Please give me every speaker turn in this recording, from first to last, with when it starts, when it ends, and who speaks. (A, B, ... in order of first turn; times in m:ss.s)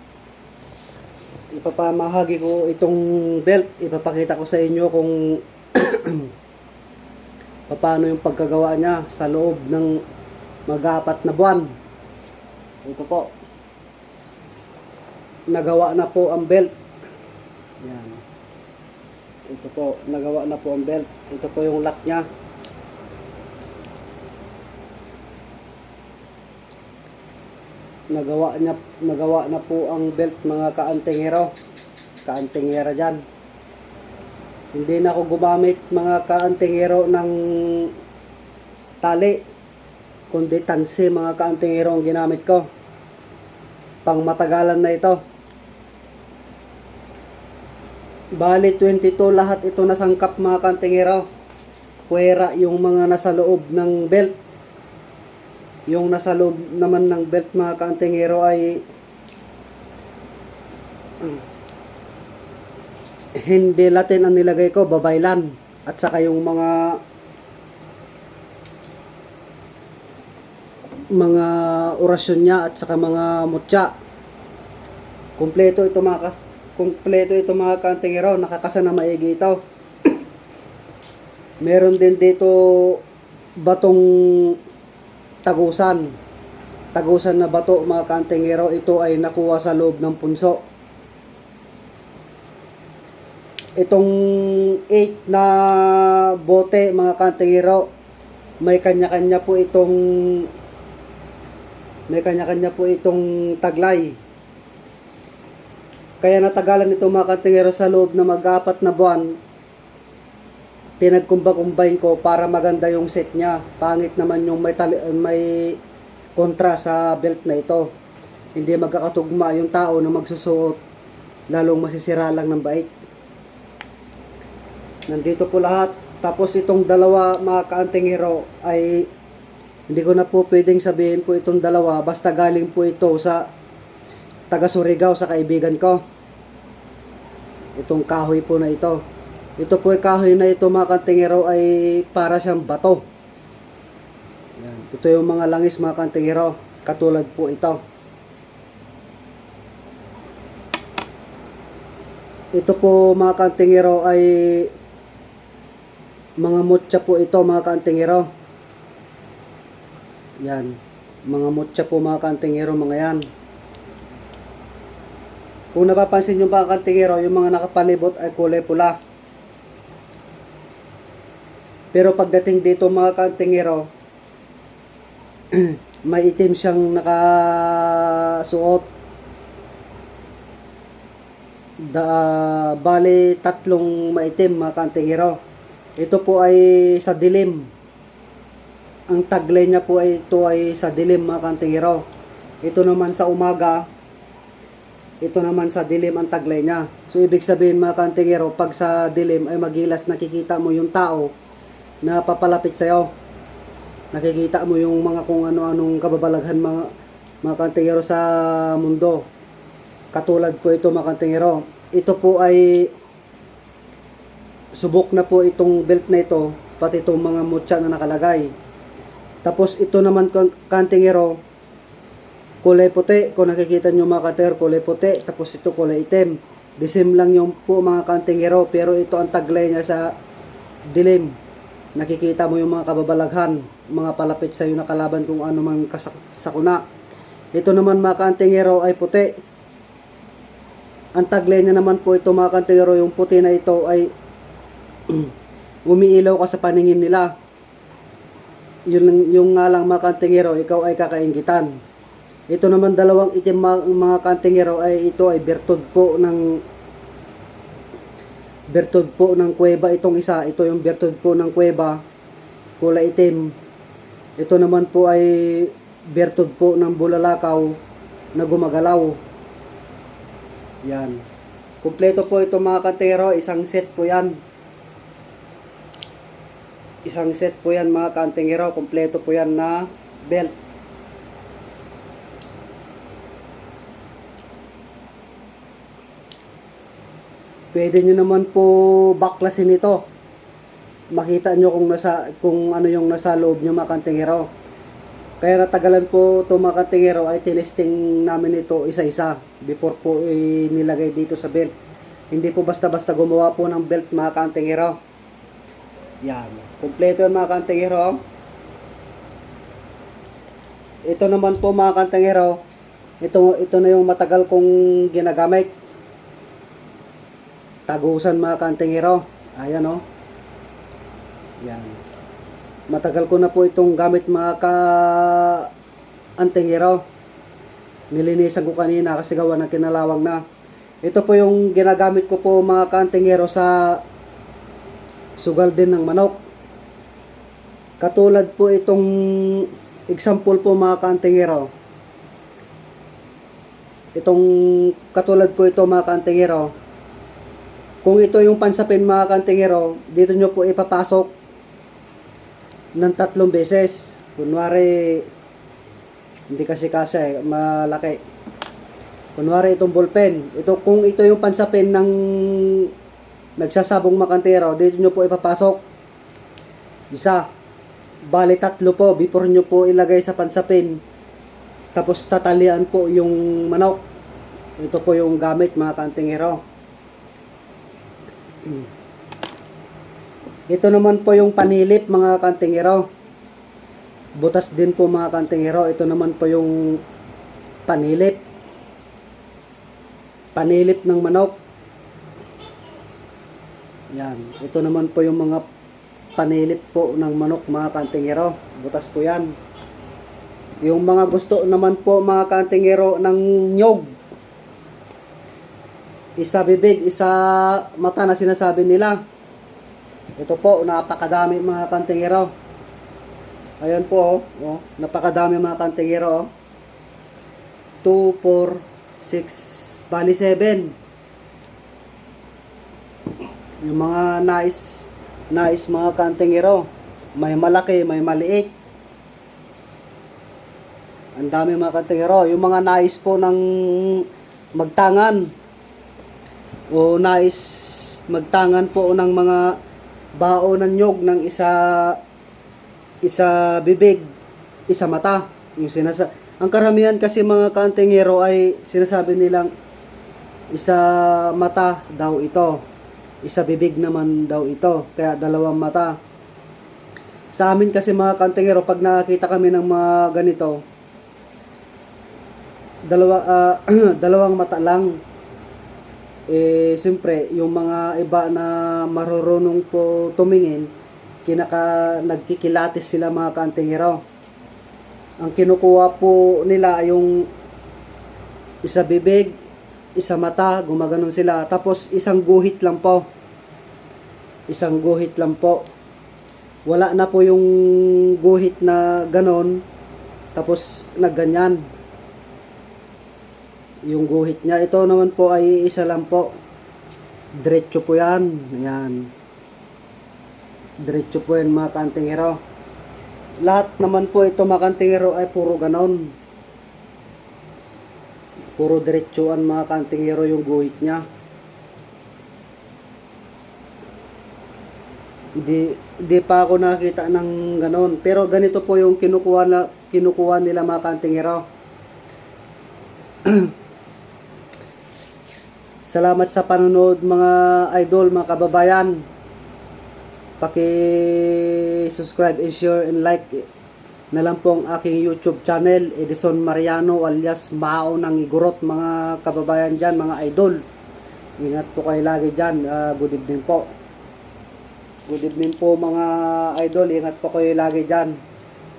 0:01.5-0:06.3 A
0:07.7-0:10.0 A
0:10.7-0:11.7 A
0:12.8-0:13.3 A
0:15.5-0:16.7 A
0:17.8-0:18.2 A
0:19.5-0:22.2 A
0:28.1-0:31.5 A
0:32.2-0:33.2 A
0:34.7-0:37.9 A
0:39.0-0:39.4 A
0:40.3-0:42.7 A
0:44.0-0:45.2 A
0:48.3-0:51.2 A
0:52.1-0:54.4 A
0:55.9-0:58.8 A
1:03.4-1:07.0 A
1:11.1-1:13.9 A
1:15.4-1:19.6 A
1:21.6-1:23.0 A
1:23.6-1:24.6 A
1:25.4-1:26.1 A
1:26.9-1:30.6 A
1:33.8-1:37.9 A
1:38.6-1:40.5 A
1:42.1-1:44.2 A
1:46.2-1:49.4 A
1:51.0-1:55.8 A
1:56.4-1:57.9 A
1:58.6-2:00.8 A
2:01.5-2:02.9 A
2:05.1-2:09.1 A
2:09.9-2:13.4 A
2:14.5-2:16.0 A
2:17.8-2:19.0 A
2:19.6-2:23.0 A
2:24.6-2:27.8 A
2:32.5-2:34.7 A
2:36.4-2:38.3 A
2:40.4-2:40.8 A
2:41.3-2:43.2 A
2:45.7-2:49.0 A
2:51.9-2:53.9 A
2:55.5-2:58.9 A
3:01.8-3:05.4 A
3:06.0-3:07.7 A
3:09.1-3:12.0 A
3:12.6-3:13.8 A
3:15.2-3:21.3 A
3:22.0-3:23.1 A
3:24.1-3:26.9 A
3:27.4-3:29.3 A
3:30.1-3:32.9 A
3:34.8-3:38.5 A
3:39.4-3:41.4 A
3:42.6-3:50.1 A
3:50.9-3:51.3 A
3:52.0-3:56.8 A
3:57.5-3:59.3 A
4:01.2-4:04.1 A
4:05.9-4:07.3 A
4:08.9-4:11.7 A
4:12.5-4:16.4 A
4:18.7-4:22.0 A
4:22.8-4:23.5 A
4:24.4-4:27.8 A
4:28.4-4:29.2 A
4:30.8-4:31.2 A
4:31.8-4:34.4 A
4:37.0-4:40.5 A
4:47.7-4:50.1 A
4:51.1-4:54.5 A
4:55.4-5:01.7 A
5:02.3-5:05.0 A
5:06.2-5:08.2 A
5:11.0-5:12.6 A
5:13.2-5:15.7 A
5:17.9-5:20.0 A
5:21.6-5:22.0 A
5:22.9-5:25.7 A
5:26.4-5:27.0 A
5:28.1-5:30.4 A
5:31.0-5:34.0 A
5:35.4-5:36.4 A
5:38.0-5:41.7 A
5:44.2-5:46.7 A
5:48.0-5:51.3 A
5:53.0-5:55.3 A
5:56.5-5:58.2 A
5:59.4-6:02.9 A
6:03.6-6:05.8 A
6:07.1-6:07.4 A
6:08.3-6:11.0 A
6:11.9-6:14.0 A
6:14.8-6:16.6 A
6:20.7-6:23.0 A
6:24.4-6:27.0 A
6:27.9-6:28.4 A
6:30.5-6:31.6 A
6:34.1-6:35.6 A
6:36.4-6:39.5 A
6:40.8-6:44.1 A
6:46.4-6:49.2 A
6:50.4-6:52.5 A
6:53.8-6:56.5 A
6:58.0-7:00.9 A
7:03.8-7:08.7 A
7:11.4-7:15.5 A
7:16.9-7:19.7 A
7:20.4-7:22.2 A
7:23.2-7:24.3 A
7:24.9-7:29.7 A
7:30.7-7:32.8 A
7:33.4-7:36.2 A
7:37.5-7:40.8 A
7:43.0-7:45.2 A
7:46.5-7:50.9 A
7:51.4-7:54.2 A
7:55.4-7:57.4 A
7:58.8-7:59.5 A
8:00.2-8:03.2 A
8:04.7-8:05.8 A
8:06.8-8:09.8 A
8:10.5-8:11.9 A
8:14.0-8:16.5 A
8:17.6-8:19.3 A
8:21.0-8:22.6 A
8:23.6-8:26.3 A
8:28.8-8:31.2 A
8:35.6-8:41.6 A
8:43.4-8:43.7 A
8:46.0-8:49.2 A
8:50.6-8:53.7 A
8:54.3-9:00.8 A
9:01.6-9:03.9 A
9:05.3-9:08.4 A